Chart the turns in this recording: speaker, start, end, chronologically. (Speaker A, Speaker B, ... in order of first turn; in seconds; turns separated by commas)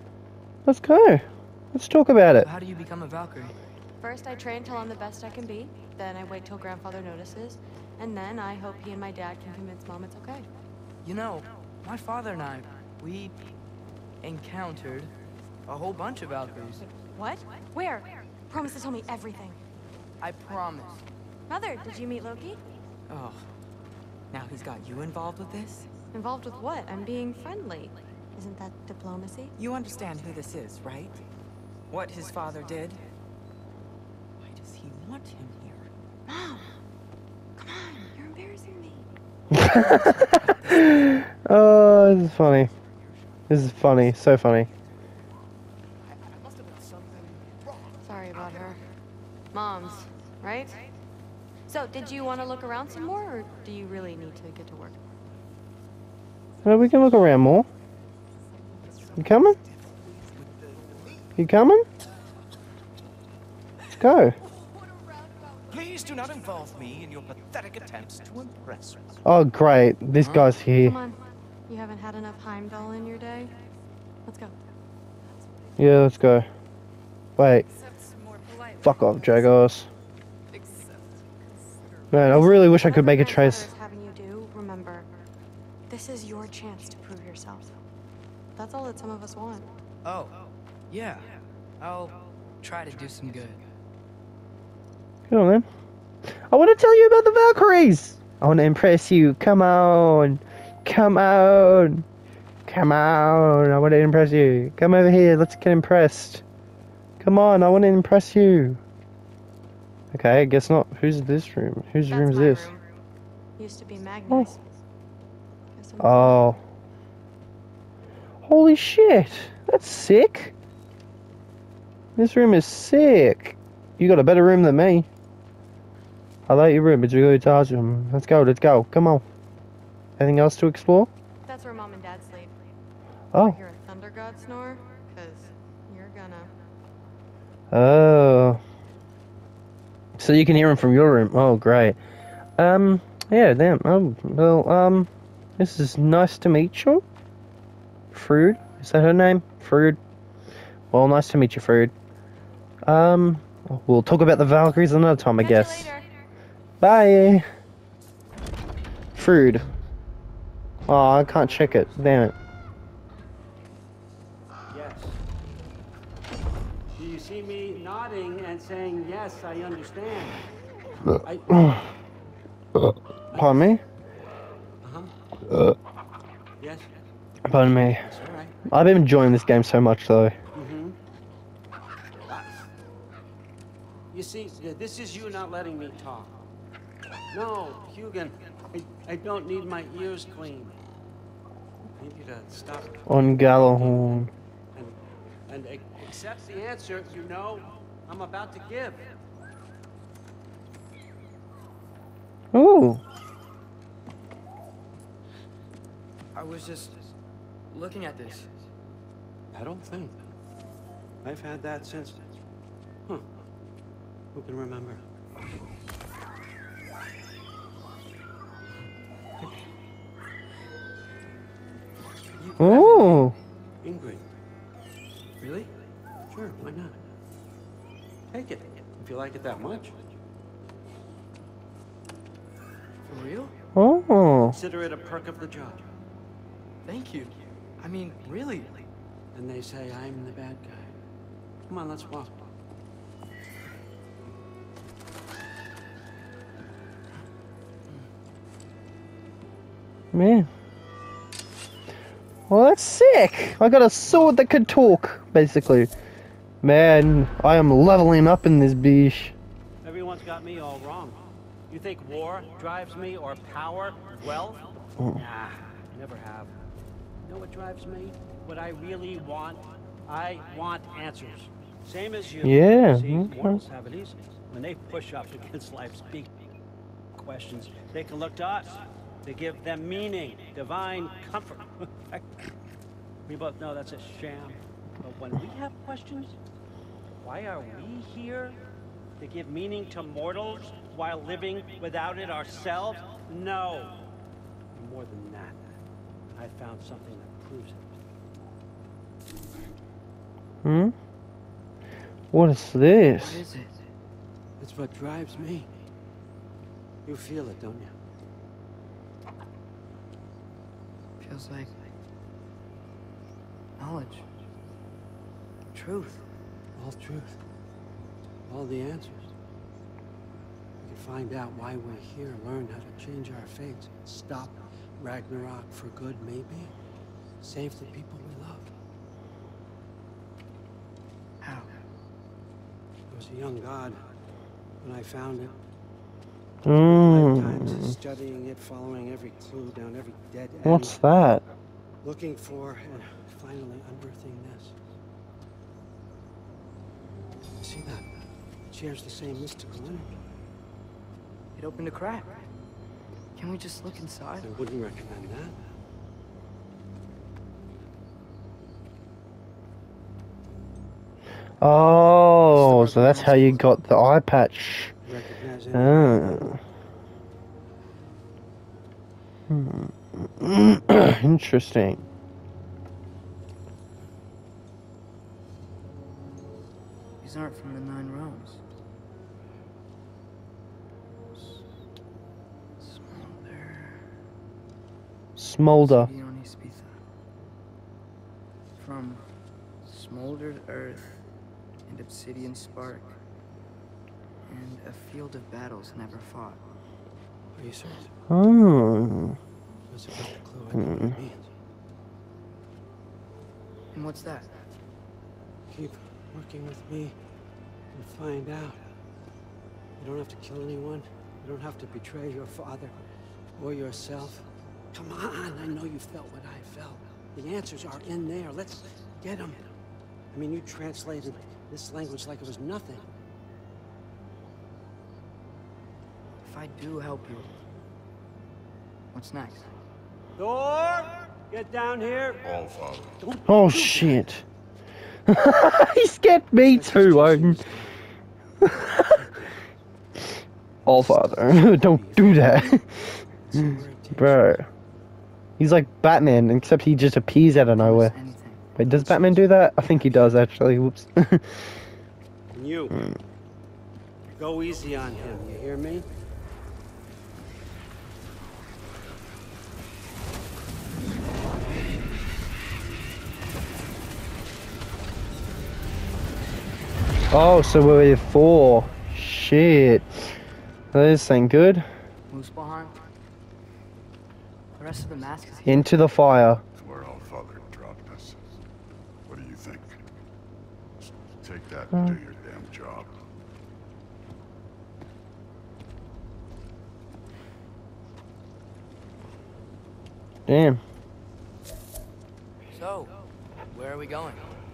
Speaker A: 0.7-2.5, Speaker B: 2.4-3.5, Speaker C: 4.0-10.5, Speaker B: 11.0-13.4, Speaker B: 14.2-15.1, Speaker B: 15.7-16.8, Speaker C: 17.1-19.6, Speaker B: 20.2-21.0, Speaker C: 21.5-22.6, Speaker D: 23.1-23.5, Speaker D: 24.3-25.9, Speaker C: 26.1-29.5, Speaker D: 29.6-31.2, Speaker D: 31.9-33.0, Speaker D: 34.4-35.9, Speaker D: 37.6-38.6, Speaker A: 39.5-42.7, Speaker B: 39.8-41.1, Speaker A: 43.5-44.7, Speaker E: 46.6-47.6, Speaker C: 48.0-48.8, Speaker C: 49.5-50.8, Speaker C: 51.7-55.0, Speaker A: 56.6-57.7, Speaker A: 59.2-59.6, Speaker E: 60.2-61.1, Speaker A: 61.4-61.9, Speaker A: 63.9-64.4, Speaker E: 65.7-69.2, Speaker A: 69.2-71.0, Speaker B: 70.2-70.5, Speaker C: 70.8-73.5, Speaker C: 74.3-74.5, Speaker A: 75.8-76.5, Speaker A: 77.4-77.7, Speaker A: 78.8-79.9, Speaker A: 82.1-83.7, Speaker C: 82.2-85.1, Speaker C: 85.9-87.8, Speaker C: 88.6-89.7, Speaker B: 90.0-93.6, Speaker A: 95.3-95.7, Speaker A: 96.5-102.0, Speaker A: 102.7-106.4, Speaker A: 107.2-108.8, Speaker A: 110.1-112.7, Speaker C: 112.1-112.8, Speaker C: 113.6-114.6, Speaker C: 115.8-116.5, Speaker A: 116.0-116.6, Speaker A: 118.4-120.5, Speaker A: 122.2-125.1, Speaker A: 126.5-129.2, Speaker A: 130.2-131.1, Speaker C: 131.4-132.5, Speaker A: 133.3-133.6, Speaker C: 133.3-136.5, Speaker A: 137.7-138.6, Speaker A: 140.2-142.0, Speaker A: 142.6-147.0, Speaker A: 148.1-150.0, Speaker A: 150.9-151.9, Speaker A: 152.8-155.9, Speaker C: 155.4-156.1, Speaker A: 156.8-157.5, Speaker A: 159.2-159.7, Speaker A: 160.9-162.3, Speaker F: 160.9-161.9, Speaker F: 164.7-165.2, Speaker F: 167.0-170.5, Speaker F: 171.2-171.8, Speaker A: 171.5-171.8, Speaker A: 172.8-173.8, Speaker F: 173.3-173.7, Speaker F: 174.8-175.1, Speaker F: 176.6-176.9, Speaker A: 177.5-178.1, Speaker F: 178.0-178.5, Speaker A: 178.7-180.3, Speaker F: 180.6-181.0, Speaker F: 184.1-186.3, Speaker F: 187.3-190.8, Speaker F: 191.9-199.1, Speaker A: 193.1-194.3, Speaker A: 202.5-203.0, Speaker B: 206.3-207.1, Speaker B: 207.7-208.5, Speaker F: 209.5-210.2, Speaker F: 211.2-212.2, Speaker F: 214.3-215.0, Speaker F: 222.4-224.3, Speaker A: 222.6-223.3, Speaker F: 225.4-225.7, Speaker F: 226.3-227.0, Speaker F: 228.3-229.9, Speaker B: 233.1-233.5, Speaker A: 233.8-234.6, Speaker F: 234.5-235.8, Speaker B: 236.8-238.8, Speaker F: 239.3-240.9, Speaker F: 241.7-242.3, Speaker A: 250.1-250.5, Speaker A: 252.5-255.9, Speaker A: 256.6-259.3, Speaker F: 259.8-261.2, Speaker F: 261.7-266.5, Speaker F: 267.2-276.3, Speaker A: 272.4-273.6, Speaker F: 277.1-282.3, Speaker F: 283.3-286.4, Speaker F: 287.2-288.6, Speaker F: 289.2-294.0, Speaker F: 294.7-295.8, Speaker F: 296.3-298.0, Speaker A: 300.6-300.9, Speaker A: 302.3-303.4, Speaker B: 303.2-303.8, Speaker F: 304.6-305.7, Speaker F: 307.1-307.9, Speaker B: 311.2-311.7, Speaker B: 313.8-314.3, Speaker B: 315.7-316.2, Speaker F: 316.8-317.4, Speaker F: 318.5-319.3, Speaker F: 320.8-326.7, Speaker F: 327.4-328.7, Speaker B: 331.4-331.7, Speaker F: 333.1-334.0, Speaker F: 334.8-335.6, Speaker A: 336.6-338.0, Speaker F: 336.7-341.0, Speaker A: 340.6-341.4, Speaker F: 342.0-344.8, Speaker F: 347.6-348.1, Speaker F: 348.7-350.2, Speaker B: 351.6-352.4, Speaker B: 353.4-354.5, Speaker F: 354.4-355.6, Speaker A: 361.6-364.9, Speaker B: 362.5-363.7, Speaker F: 365.1-366.4, Speaker A: 365.7-366.6, Speaker A: 369.5-372.0, Speaker B: 377.2-378.6, Speaker B: 381.4-381.6, Speaker B: 382.8-384.0, Speaker A: 385.4-386.1, Speaker B: 385.8-386.9, Speaker B: 388.8-389.2, Speaker B: 389.8-391.2, Speaker B: 391.9-393.2, Speaker B: 394.5-396.6, Speaker F: 397.6-398.1, Speaker A: 398.3-399.4, Speaker F: 399.9-401.5, Speaker A: 400.8-401.2, Speaker B: 403.9-404.6, Speaker F: 405.7-407.2, Speaker F: 407.9-408.8, Speaker F: 410.0-413.0, Speaker F: 413.6-419.7, Speaker F: 420.3-423.0, Speaker B: 426.4-427.5, Speaker B: 429.1-429.7, Speaker F: 430.4-432.5, Speaker G: 432.4-433.2, Speaker F: 433.2-434.2, Speaker A: 433.5-434.4, Speaker A: 435.3-437.7, Speaker F: 436.6-438.0, Speaker A: 438.6-439.2, Speaker F: 439.0-439.5, Speaker F: 440.9-442.8, Speaker A: 440.9-442.9, Speaker F: 443.4-444.6, Speaker A: 443.5-444.7, Speaker A: 445.6-448.1, Speaker B: 447.8-449.3, Speaker A: 448.8-451.6, Speaker F: 452.5-453.0, Speaker F: 454.4-456.1, Speaker A: 467.3-470.3, Speaker A: 470.9-471.9, Speaker B: 472.3-473.0, Speaker B: 474.8-475.9, Speaker A: 475.7-476.6, Speaker G: 476.8-478.4, Speaker G: 479.3-480.0, Speaker G: 481.0-483.2, Speaker A: 490.5-490.8, Speaker B: 492.7-493.1, Speaker B: 493.7-494.5